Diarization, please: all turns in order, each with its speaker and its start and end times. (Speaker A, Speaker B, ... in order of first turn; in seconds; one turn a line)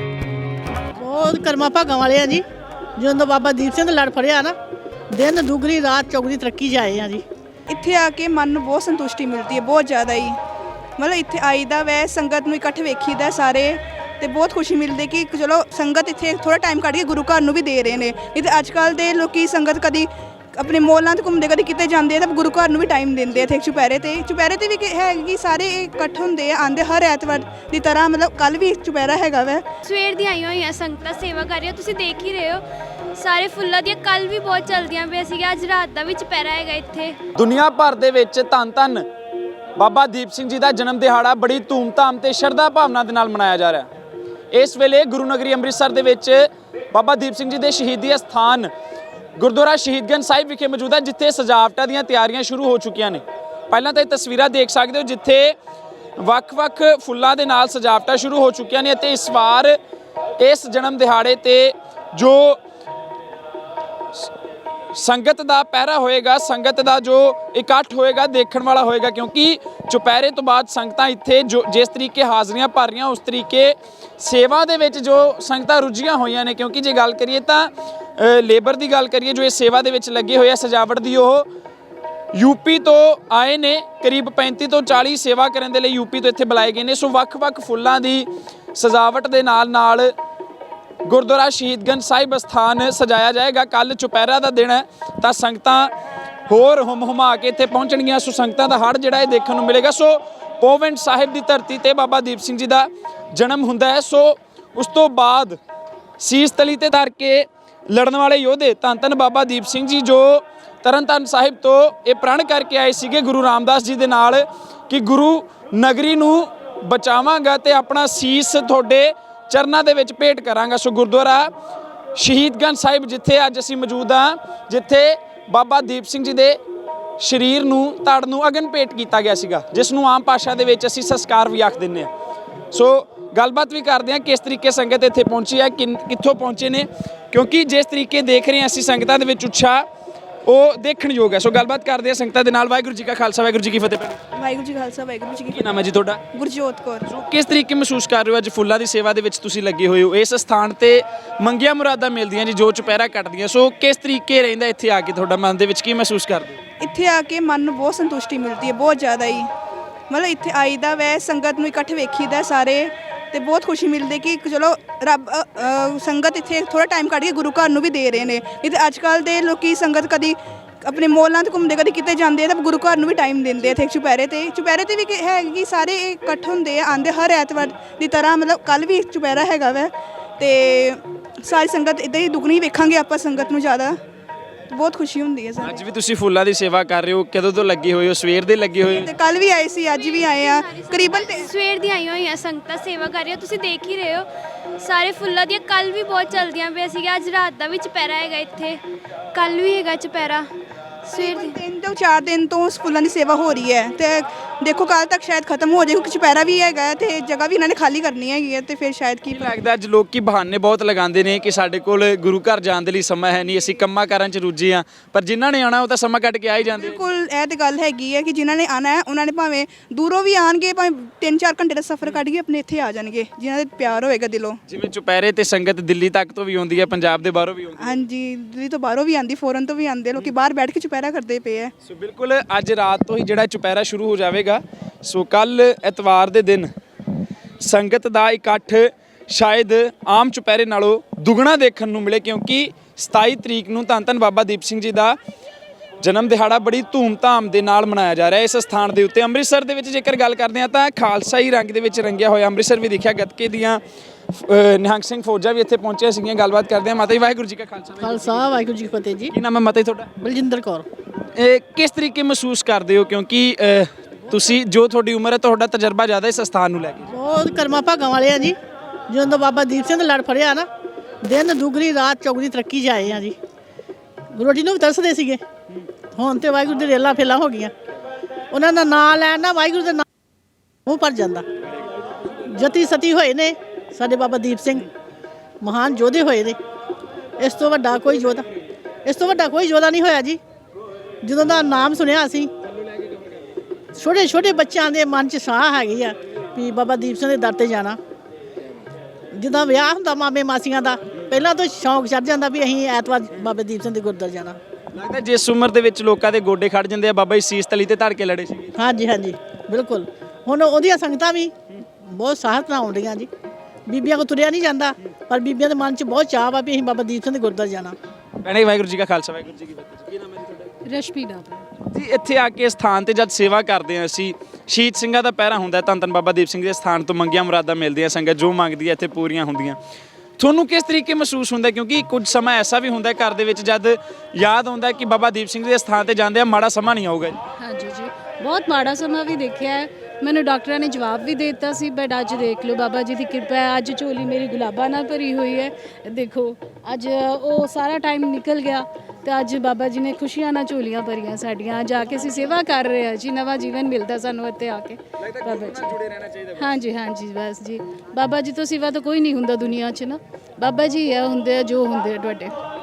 Speaker A: 1.0-2.4
Speaker A: 3.0-4.6
Speaker A: 5.1-7.2
Speaker B: 7.7-10.4
Speaker B: 11.0-29.7
Speaker C: 29.9-32.6
Speaker C: 33.2-37.2
Speaker D: 37.4-39.0
Speaker D: 39.8-43.9
Speaker D: 44.5-48.7
Speaker D: 49.4-55.5
Speaker D: 56.2-59.8
Speaker D: 60.4-62.6
Speaker D: 64.9-81.5
Speaker D: 82.3-90.1
Speaker D: 91.0-95.9
Speaker D: 96.5-105.6
Speaker D: 106.2-121.5
Speaker D: 122.2-126.6
Speaker D: 127.2-132.1
Speaker D: 132.7-139.8
Speaker D: 140.5-144.2
Speaker B: 144.3-145.6
Speaker D: 145.5-146.2
Speaker B: 146.3-147.0
Speaker D: 147.1-156.6
Speaker B: 156.8-159.5
Speaker B: 160.1-184.0
Speaker B: 184.7-185.8
Speaker D: 185.6-189.1
Speaker B: 188.9-191.5
Speaker C: 189.8-194.3
Speaker C: 194.8-198.8
Speaker C: 199.3-200.5
Speaker B: 201.1-209.5
Speaker C: 201.1-201.6
Speaker D: 209.3-217.0
Speaker B: 216.8-224.6
Speaker D: 224.7-228.1
Speaker B: 227.8-231.7
Speaker D: 231.8-236.7
Speaker D: 237.6-245.2
Speaker D: 246.0-258.5
Speaker A: 258.0-259.3
Speaker D: 259.3-260.1
Speaker A: 260.2-260.9
Speaker D: 261.4-267.1
Speaker A: 267.1-268.6
Speaker A: 269.1-270.7
Speaker A: 271.2-273.4
Speaker A: 274.3-275.4
Speaker A: 276.1-277.7
Speaker A: 278.5-280.1
Speaker A: 280.9-281.5
Speaker A: 282.5-284.9
Speaker A: 285.6-286.6
Speaker A: 287.4-288.4
Speaker A: 289.1-290.4
Speaker A: 291.2-292.5
Speaker A: 294.0-298.0
Speaker A: 299.3-304.6
Speaker D: 304.9-308.7
Speaker A: 308.8-311.5
Speaker A: 312.1-313.3
Speaker A: 313.9-318.0
Speaker D: 318.4-320.6
Speaker E: 320.9-321.7
Speaker D: 321.9-329.8
Speaker D: 330.4-337.4
Speaker E: 337.6-355.9
Speaker D: 355.2-356.7
Speaker E: 356.6-362.6